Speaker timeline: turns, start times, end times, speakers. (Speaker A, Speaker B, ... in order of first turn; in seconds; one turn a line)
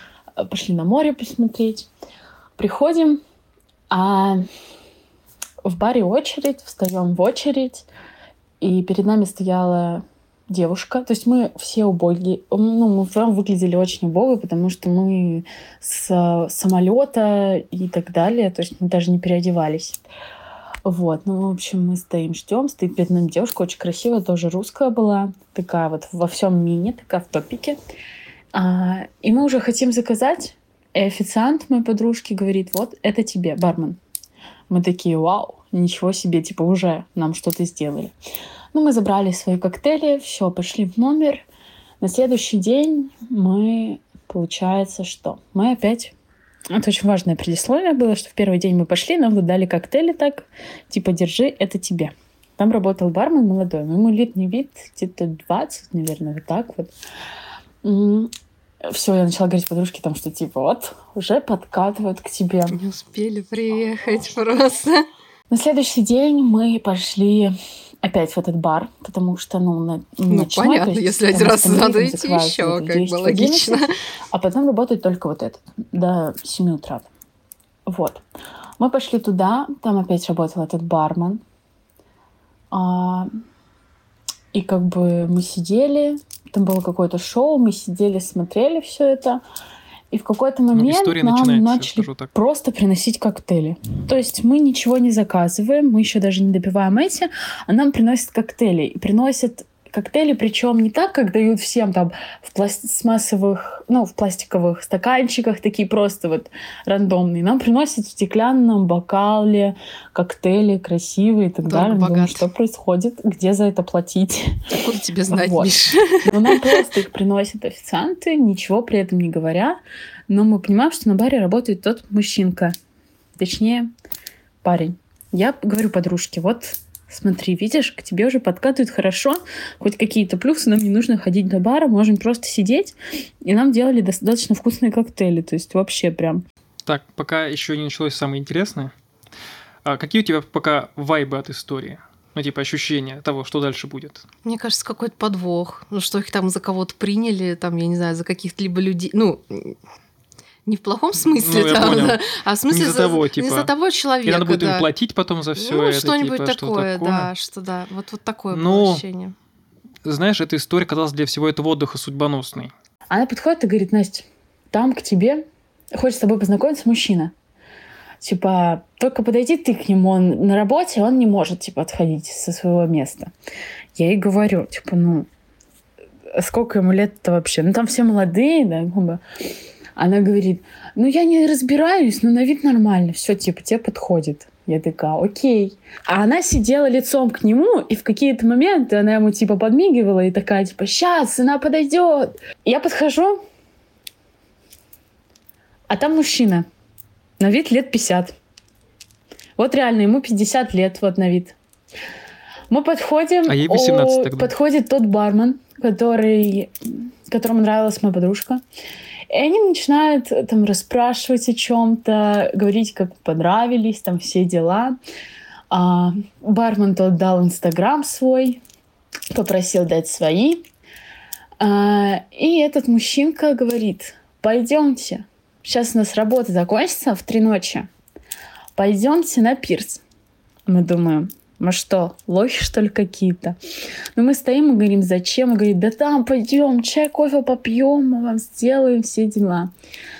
Speaker A: 0.4-1.9
Speaker A: 2.6-3.2
Speaker A: 3.9-4.4
Speaker A: 5.6-7.8
Speaker A: 8.6-20.0
Speaker A: 20.8-27.8
Speaker A: 28.5-34.0
Speaker A: 34.7-38.1
Speaker A: 38.7-41.5
Speaker A: 42.0-46.1
Speaker A: 46.7-56.9
Speaker A: 57.8-58.3
Speaker A: 58.8-62.8
Speaker B: 62.7-65.0
Speaker A: 65.5-77.1
Speaker B: 70.3-73.9
Speaker A: 77.9-78.2
Speaker A: 78.8-81.4
Speaker A: 82.7-83.3
Speaker A: 84.5-89.4
Speaker A: 90.1-122.7
Speaker C: 90.7-92.3
Speaker B: 111.6-112.5
Speaker B: 114.8-116.8
Speaker A: 123.4-123.9
Speaker A: 124.6-136.4
Speaker C: 136.8-138.9
Speaker C: 139.8-144.2
Speaker B: 144.4-149.8
Speaker B: 150.7-154.9
Speaker C: 151.4-153.7
Speaker C: 154.2-157.3
Speaker B: 155.6-159.3
Speaker C: 158.5-159.0
Speaker C: 160.0-162.7
Speaker A: 163.1-167.3
Speaker A: 168.2-173.3
Speaker A: 173.9-175.3
Speaker A: 176.3-179.2
Speaker A: 179.9-193.4
Speaker A: 195.9-196.7
Speaker A: 197.4-198.3
Speaker A: 199.6-201.6
Speaker A: 202.7-208.6
Speaker C: 203.5-204.5
Speaker A: 209.3-214.9
Speaker A: 215.7-218.6
Speaker A: 219.3-220.6
Speaker A: 221.6-227.9
Speaker A: 228.8-230.0
Speaker A: 230.7-233.6
Speaker A: 234.2-239.7